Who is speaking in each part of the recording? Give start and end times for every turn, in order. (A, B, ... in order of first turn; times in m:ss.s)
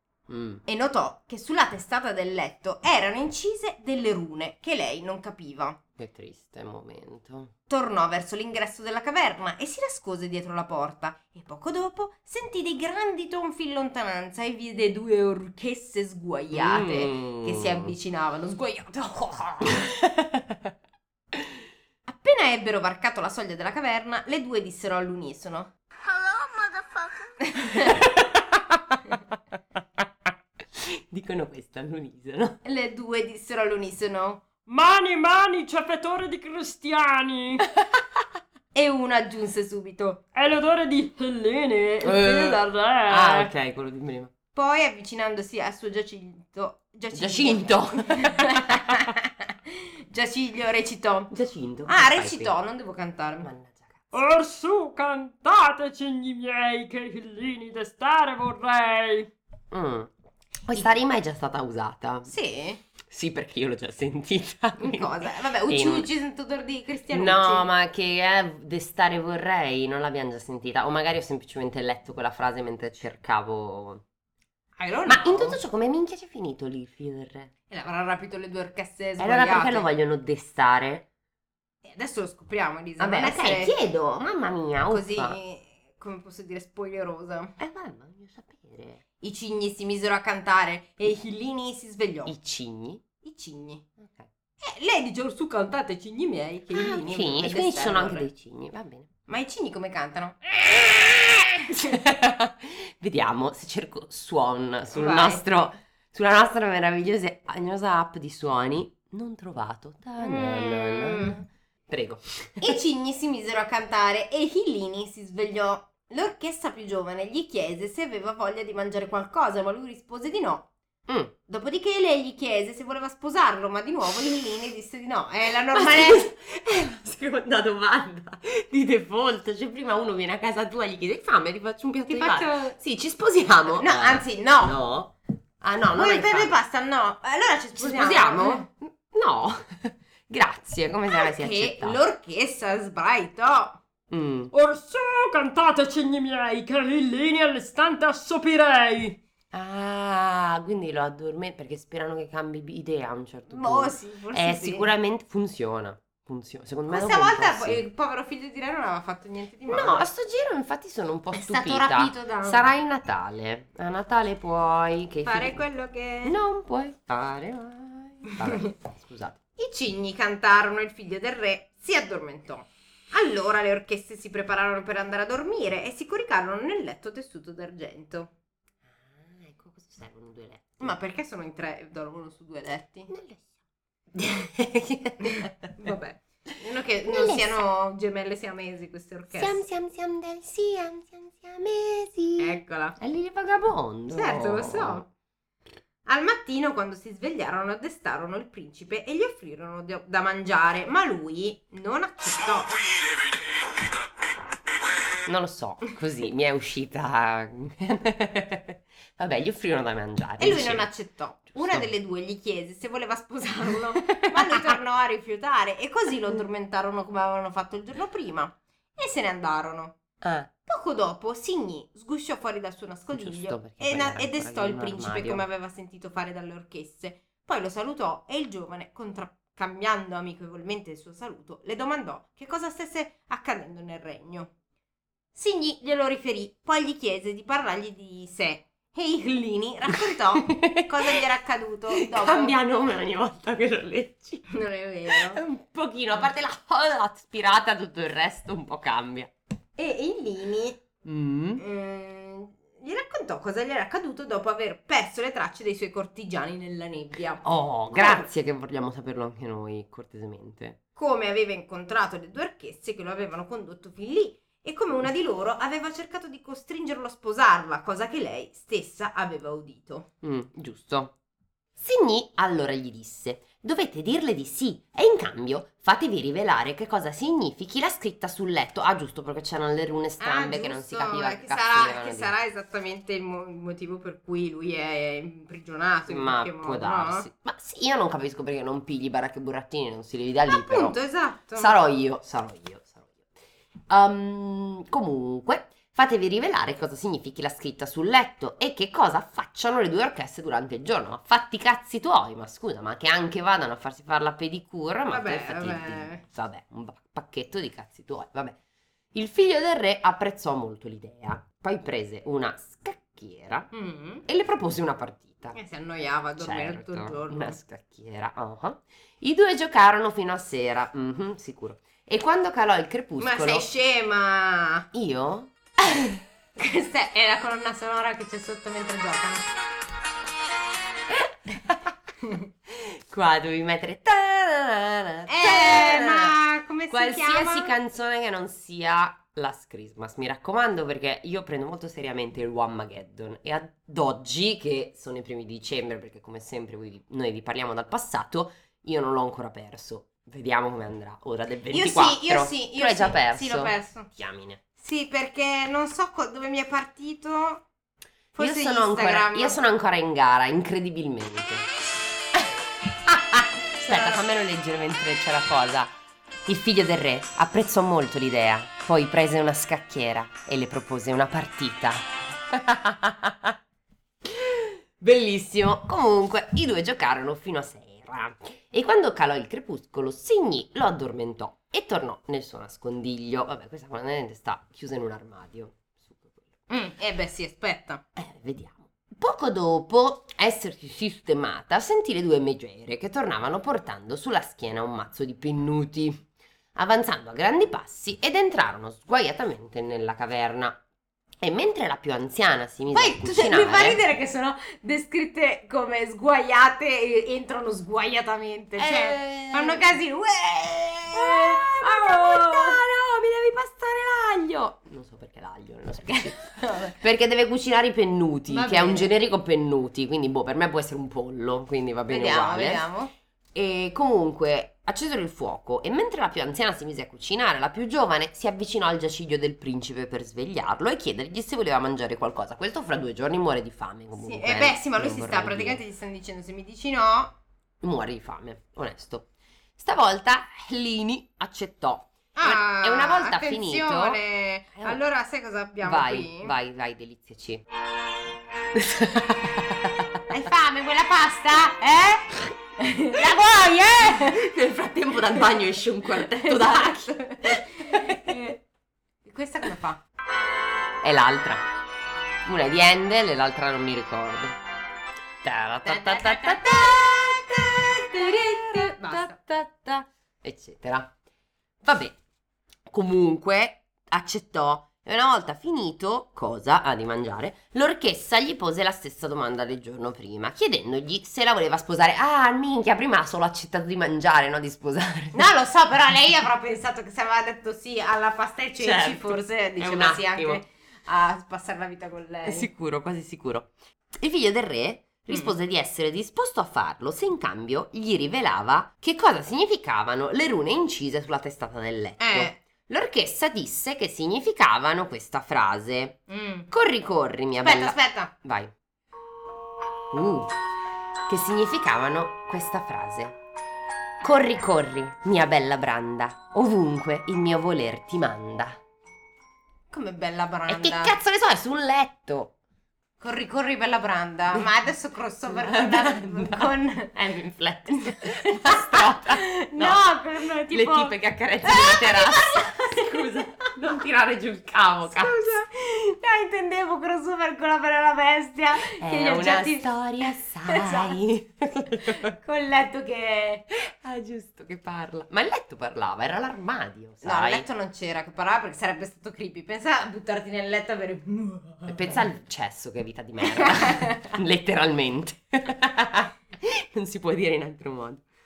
0:00.3-0:00.6 A
0:00.7-0:05.8 B
0:06.0-0:07.5 A
0:07.7-0:19.9 B
0:16.5-0:17.9 A
0:19.7-0:20.6 A
0:22.1-0:25.7 B
0:27.4-0:28.0 B
0:27.8-0:29.0 A
0:30.6-0:32.6 A
0:32.6-0:34.5 B
0:34.7-0:37.6 C
0:38.7-0:40.2 B
0:40.3-0:43.5 C
0:42.0-0:44.3 A
0:44.5-0:51.3 B
0:47.1-0:49.1 A
0:51.3-0:52.5 A
0:51.9-0:53.5 B
0:53.4-0:54.0 A
0:54.1-0:59.3 C
0:59.7-1:00.1 A
1:00.7-1:02.3 A
1:02.2-1:02.8 B
1:03.1-1:06.1 A
1:04.8-1:07.7 B
1:07.1-1:14.0 A
1:14.8-1:15.6 B
1:15.1-1:17.5 A
1:17.7-1:19.9 B
1:19.2-1:21.1 A
1:21.8-1:23.8 B
1:23.0-1:25.4 A
1:24.9-1:27.6 B
1:27.6-1:29.0 A
1:29.2-1:32.3 B
1:32.3-1:33.0 A
1:33.2-1:33.9 B
1:34.0-1:34.3 A
1:34.6-1:38.3 B
1:36.7-1:39.1 A
1:39.3-1:40.6 B
1:40.8-1:41.1 A
1:41.7-1:42.0 B
1:41.8-1:52.8 A
1:44.9-1:45.4 B
1:50.2-1:51.4 B
1:52.6-2:00.7 B
2:01.1-2:01.3 A
2:01.5-2:06.3 B
2:05.7-2:16.6 A
2:12.1-2:12.8 B
2:13.7-2:14.8 B
2:16.0-2:18.7 B
2:17.8-2:22.0 A
2:21.1-2:23.8 B
2:24.1-2:24.5 A
2:24.5-2:29.2 C
2:29.5-2:37.8 A
2:33.5-2:34.9 B
2:36.9-2:40.0 B
2:39.7-2:45.6 A
2:41.3-2:42.7 B
2:45.2-2:46.4 B
2:46.2-2:49.4 A
2:48.5-2:48.7 B
2:49.6-2:58.3 B
2:58.9-3:00.9 A
3:00.8-3:03.1 B
3:03.1-3:03.5 A
3:04.1-3:05.5 A
3:05.2-3:09.6 B
3:07.1-3:07.6 A
3:09.4-3:15.0 A
3:12.4-3:13.0 B
3:14.1-3:15.1 B
3:16.0-3:22.9 B
3:25.2-3:30.9 A
3:30.4-3:40.0 B
3:31.5-3:31.9 A
3:40.2-3:40.5 A
3:40.6-3:54.5 B
3:43.1-3:45.4 A
3:55.4-4:02.6 B
4:00.5-4:00.8 A
4:01.9-4:04.5 A
4:04.5-4:05.4 B
4:05.1-4:09.3 A
4:09.8-4:10.8 B
4:11.0-4:11.6 A
4:11.6-4:18.3 B
4:17.4-4:20.8 A
4:21.0-4:30.1 B
4:30.2-4:31.1 A
4:31.8-4:42.3 A
4:40.2-4:47.3 B
4:46.1-4:51.0 A
4:50.5-4:51.7 B
4:51.5-4:53.3 A
4:53.9-5:08.6 A
5:05.1-5:06.2 B
5:09.1-5:13.7 A
5:13.7-5:14.2 B
5:14.2-5:15.6 A
5:15.5-5:17.6 B
5:16.4-5:23.7 A
5:23.2-5:24.9 B
5:24.9-5:26.2 A
5:26.6-5:29.5 B
5:31.1-5:31.9 A
5:32.7-5:36.4 A
5:35.3-5:37.7 B
5:36.9-5:54.6 A
5:51.7-5:54.1 B
5:54.8-5:57.7 B
5:58.4-5:59.6 B
5:58.4-6:01.7 A
6:03.0-6:06.0 A
6:03.9-6:04.2 B
6:06.5-6:13.6 A
6:14.2-6:26.4 A
6:26.7-6:28.0 B
6:28.2-6:40.8 A
6:41.4-6:44.0 A
6:42.9-6:52.8 B
6:48.8-6:49.9 A
6:51.1-7:02.9 A
6:56.2-6:57.0 B
6:58.5-6:59.1 B
7:02.1-7:03.1 B
7:03.5-7:15.8 A
7:14.2-7:17.4 B
7:17.8-7:24.2 A
7:22.4-7:26.5 B
7:25.8-7:27.6 A
7:28.8-7:30.2 A
7:30.3-7:34.4 B
7:33.1-7:38.4 A
7:36.3-7:38.6 B
7:39.2-7:40.0 B
7:41.0-7:41.7 A
7:42.4-7:44.6 A
7:45.4-7:51.1 A
7:45.8-7:47.0 B
7:48.2-7:49.4 B
7:51.8-7:52.2 A
7:52.9-8:05.5 A
8:05.3-8:12.7 B
8:08.8-8:10.6 A
8:12.5-8:26.2 A
8:22.2-8:22.6 B
8:26.3-8:26.7 B
8:26.7-8:28.7 A
8:27.6-8:28.3 B
8:30.1-8:30.5 A
8:31.3-8:33.4 A
8:34.2-8:38.8 A
8:39.9-8:41.2 B
8:40.7-8:42.5 A
8:43.2-8:47.1 B
8:45.5-8:50.1 A
8:48.2-8:53.5 B
8:50.7-8:55.4 A
8:55.1-9:01.2 B
8:58.8-9:02.3 A
9:02.0-9:03.7 B
9:03.7-9:07.6 A
9:07.2-9:12.2 B
9:11.9-9:18.2 A
9:13.5-9:14.3 B